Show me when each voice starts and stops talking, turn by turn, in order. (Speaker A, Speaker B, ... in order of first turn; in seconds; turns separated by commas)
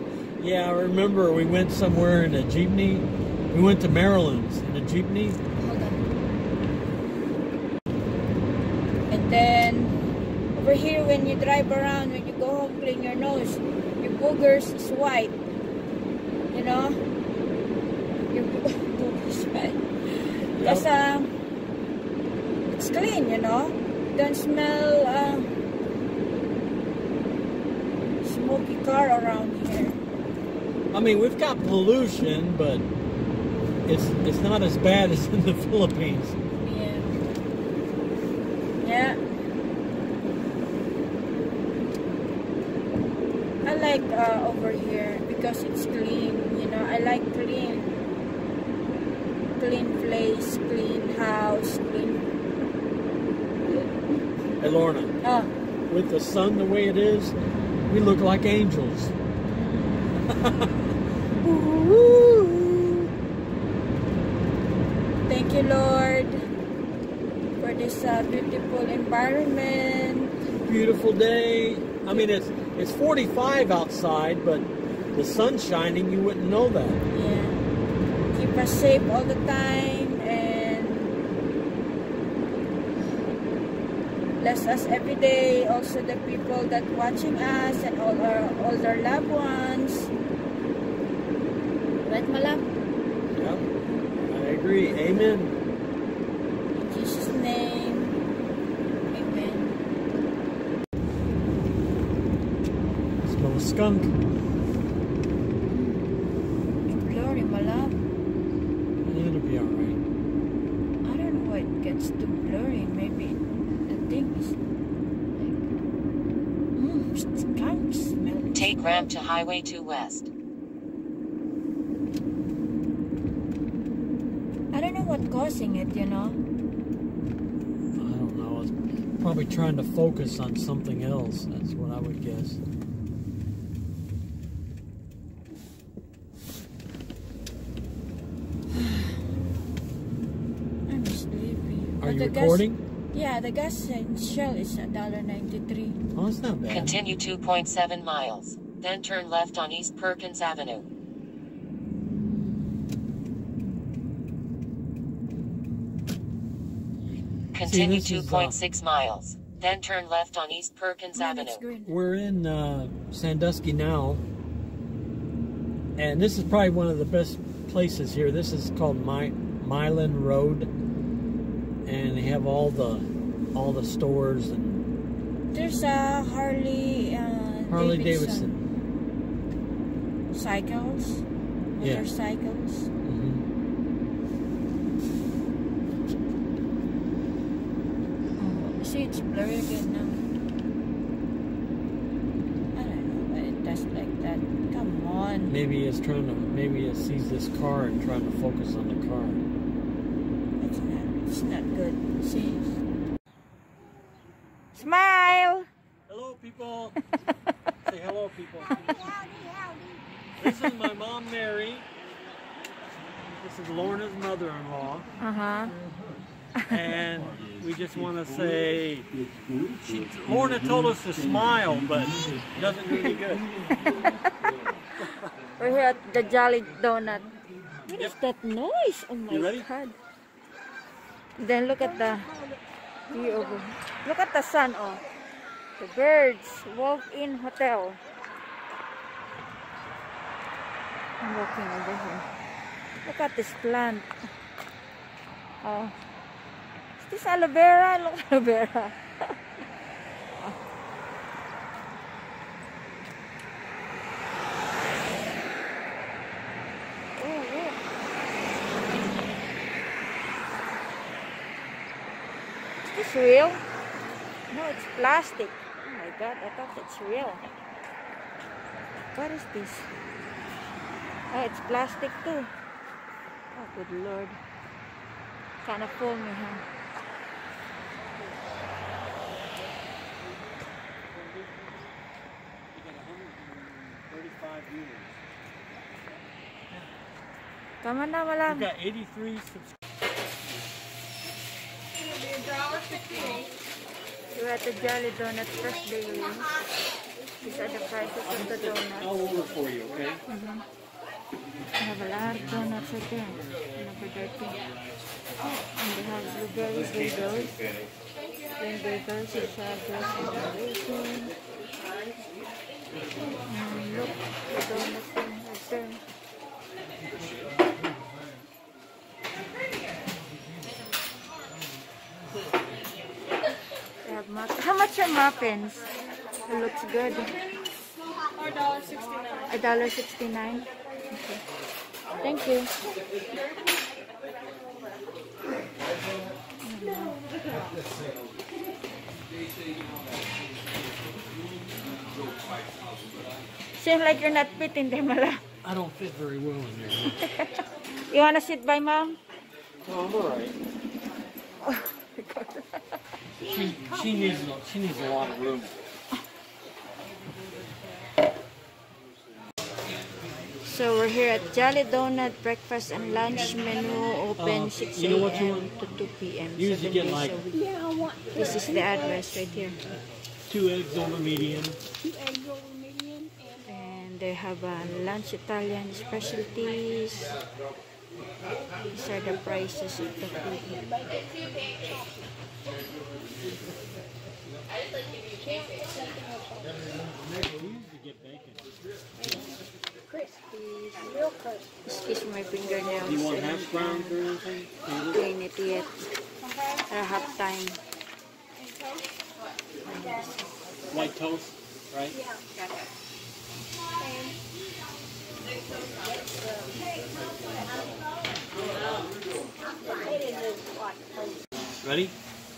Speaker A: 0.4-5.4, Speaker B: 5.5-6.0, Speaker B: 9.1-10.0, Speaker B: 10.5-15.3, Speaker B: 16.5-17.0, Speaker B: 18.3-21.3, Speaker A: 20.5-20.9, Speaker B: 22.7-25.5, Speaker B: 28.2-30.0, Speaker A: 30.9-32.9, Speaker A: 33.9-36.4, Speaker B: 36.6-37.2, Speaker B: 38.8-39.2, Speaker B: 43.6-48.0, Speaker B: 49.6-52.3, Speaker A: 54.6-55.1, Speaker B: 55.2-55.5, Speaker A: 55.9-57.3, Speaker A: 57.9-59.1, Speaker A: 60.2-60.7, Speaker A: 61.4-63.1, Speaker B: 65.3-66.4, Speaker B: 67.6-70.3, Speaker A: 70.7-77.0, Speaker B: 77.1-77.6, Speaker B: 78.3-81.2, Speaker B: 84.4-90.1, Speaker B: 92.0-92.7, Speaker A: 93.3-93.6, Speaker A: 94.2-95.5, Speaker B: 96.8-98.2, Speaker B: 99.1-99.8, Speaker A: 103.2-104.2, Speaker B: 105.7-106.1, Speaker B: 106.9-108.0, Speaker A: 109.0-110.0, Speaker B: 111.0-114.6, Speaker B: 115.3-115.6, Speaker B: 116.8-119.1, Speaker C: 118.5-120.3, Speaker B: 124.7-126.4, Speaker A: 127.9-132.6, Speaker B: 138.7-139.2, Speaker B: 140.9-146.0, Speaker A: 142.0-142.8, Speaker A: 146.1-147.0, Speaker C: 146.7-150.9, Speaker C: 157.5-161.6, Speaker A: 157.6-158.6, Speaker B: 161.1-161.9, Speaker A: 161.8-164.2, Speaker A: 166.0-170.7, Speaker A: 171.8-174.8, Speaker B: 175.5-178.5, Speaker A: 177.7-178.6, Speaker B: 180.3-181.2, Speaker B: 181.8-182.9, Speaker A: 181.8-182.1, Speaker A: 183.0-183.4, Speaker B: 188.4-190.2, Speaker B: 192.7-195.5, Speaker A: 195.5-199.4, Speaker B: 200.6-202.7, Speaker B: 204.7-205.7, Speaker A: 206.1-206.9, Speaker A: 207.8-209.1, Speaker D: 208.6-210.0, Speaker A: 210.4-211.9, Speaker A: 213.4-215.0, Speaker B: 215.2-215.8, Speaker A: 216.7-219.2, Speaker A: 219.8-223.5, Speaker B: 223.8-224.2, Speaker A: 225.0-225.3, Speaker B: 225.6-227.3, Speaker B: 227.8-230.0, Speaker A: 229.3-229.7, Speaker B: 231.4-232.3, Speaker D: 231.8-233.7, Speaker B: 233.1-235.0, Speaker B: 235.8-238.0, Speaker B: 241.2-242.2, Speaker B: 243.0-244.1, Speaker B: 245.6-245.9, Speaker B: 247.0-249.3, Speaker B: 257.1-257.8, Speaker B: 262.9-263.6, Speaker B: 264.5-267.4, Speaker B: 269.1-269.9, Speaker B: 271.3-272.5, Speaker B: 273.5-274.4, Speaker B: 275.6-276.6, Speaker A: 281.1-281.9, Speaker A: 282.7-285.1, Speaker B: 287.8-288.7, Speaker A: 288.4-289.7, Speaker D: 292.6-293.4, Speaker B: 294.3-296.5, Speaker B: 297.4-299.1, Speaker A: 298.2-300.2, Speaker B: 300.3-300.6, Speaker B: 301.8-304.6, Speaker B: 305.4-307.6, Speaker B: 308.6-311.3, Speaker B: 313.5-316.0, Speaker B: 324.0-325.9, Speaker B: 326.4-327.3, Speaker D: 328.8-329.4, Speaker B: 329.5-331.4, Speaker B: 332.2-332.7, Speaker B: 336.6-337.2, Speaker B: 343.8-345.4, Speaker A: 345.6-347.2, Speaker B: 347.2-347.5, Speaker B: 348.1-349.2, Speaker A: 349.8-350.5, Speaker B: 351.6-352.8, Speaker A: 353.4-355.7, Speaker B: 360.6-367.6, Speaker A: 364.4-365.8, Speaker A: 366.6-367.4, Speaker D: 367.5-369.3, Speaker B: 368.3-369.8, Speaker A: 370.5-371.8, Speaker D: 372.0-374.1, Speaker B: 373.7-377.3, Speaker B: 378.9-380.8, Speaker D: 379.4-382.3, Speaker D: 385.4-386.8, Speaker A: 387.1-388.6, Speaker D: 389.2-392.2, Speaker B: 391.9-394.1, Speaker A: 393.0-395.2, Speaker B: 395.1-396.0, Speaker D: 395.7-395.9, Speaker B: 396.9-397.8, Speaker D: 398.6-399.0, Speaker D: 399.9-400.3, Speaker A: 400.9-402.1, Speaker D: 402.1-402.5, Speaker D: 404.0-404.5, Speaker D: 406.0-407.1, Speaker D: 409.6-411.4, Speaker A: 411.8-412.1